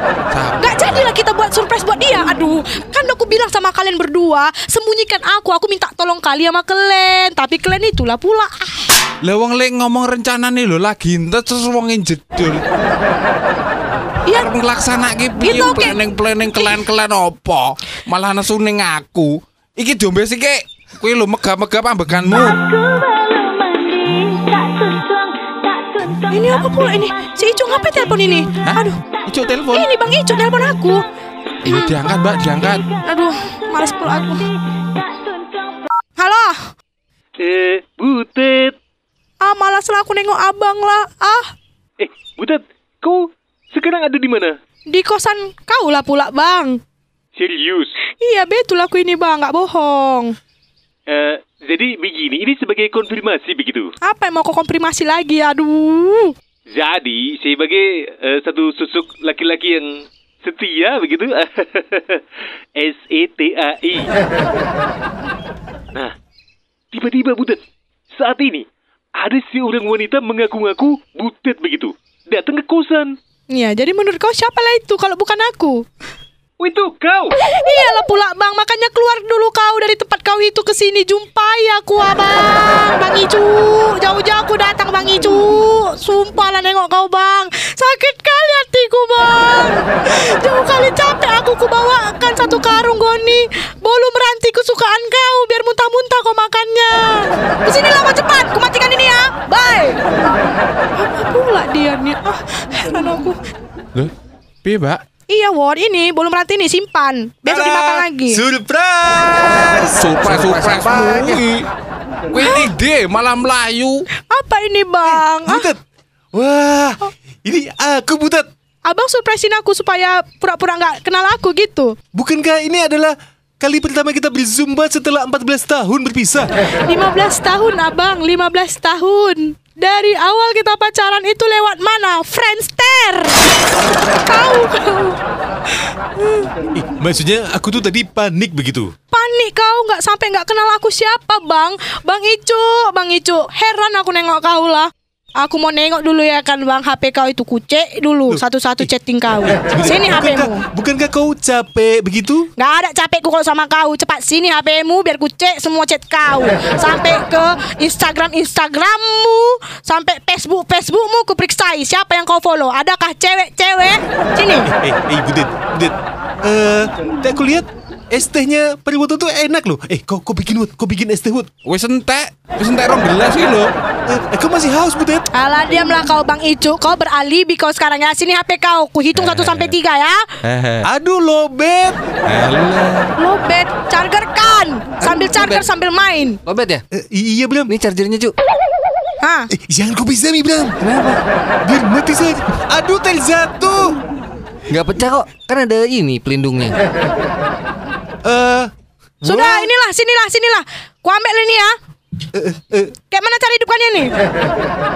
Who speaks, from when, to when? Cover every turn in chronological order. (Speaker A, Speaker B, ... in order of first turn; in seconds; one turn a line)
Speaker A: 0.3-1.0
Speaker B: 0.6-8.9
Speaker A: 9.2-12.6
Speaker A: 14.3-22.6
Speaker B: 15.4-16.0
Speaker B: 22.4-25.1
Speaker B: 26.0-29.0
Speaker A: 28.6-29.9
Speaker B: 29.7-31.0
Speaker B: 31.6-32.0
Speaker A: 31.6-32.9
Speaker B: 33.0-34.5
Speaker B: 36.2-36.7
Speaker C: 37.4-38.8
Speaker B: 39.4-41.5
Speaker C: 42.0-44.6
Speaker B: 44.9-46.8
Speaker C: 47.4-48.0
Speaker B: 48.2-50.4
Speaker C: 51.1-53.9
Speaker B: 54.0-56.4
Speaker C: 56.7-62.2
Speaker C: 62.8-64.1
Speaker C: 66.9-67.6
Speaker C: 68.2-68.7
Speaker C: 69.2-73.2
Speaker B: 73.5-75.8
Speaker C: 76.6-77.4
Speaker B: 77.5-100.0
Speaker B: 101.0-103.4
Speaker A: 104.6-105.0
Speaker B: 105.3-108.4
Speaker D: 107.5-110.0
Speaker A: 110.0-111.7
Speaker E: 110.2-111.4
Speaker A: 112.3-114.0
Speaker B: 112.4-112.7
Speaker B: 114.3-115.7
Speaker D: 115.0-115.8
Speaker D: 116.3-118.5
Speaker B: 118.9-122.0
Speaker D: 122.1-126.5
Speaker B: 126.9-135.2
Speaker B: 136.2-136.5
Speaker D: 136.8-138.9
Speaker B: 139.1-150.6
Speaker D: 148.3-148.9
Speaker D: 149.5-152.5
Speaker B: 152.6-164.7
Speaker D: 164.7-171.5
Speaker A: 171.7-173.7
Speaker D: 174.1-175.3
Speaker B: 175.3-180.2
Speaker A: 179.1-179.8
Speaker A: 180.4-180.8
Speaker D: 180.8-182.0
Speaker A: 182.3-183.1
Speaker B: 183.2-186.4
Speaker E: 185.0-185.6
Speaker E: 186.5-186.8
Speaker D: 187.0-187.7
Speaker E: 187.7-188.3
Speaker B: 189.2-189.5
Speaker D: 189.6-190.8
Speaker E: 190.8-191.2
Speaker D: 191.6-194.0
Speaker E: 194.7-196.8
Speaker D: 198.2-198.7
Speaker D: 199.2-199.7
Speaker B: 199.2-201.8
Speaker D: 202.3-202.9
Speaker B: 203.1-204.1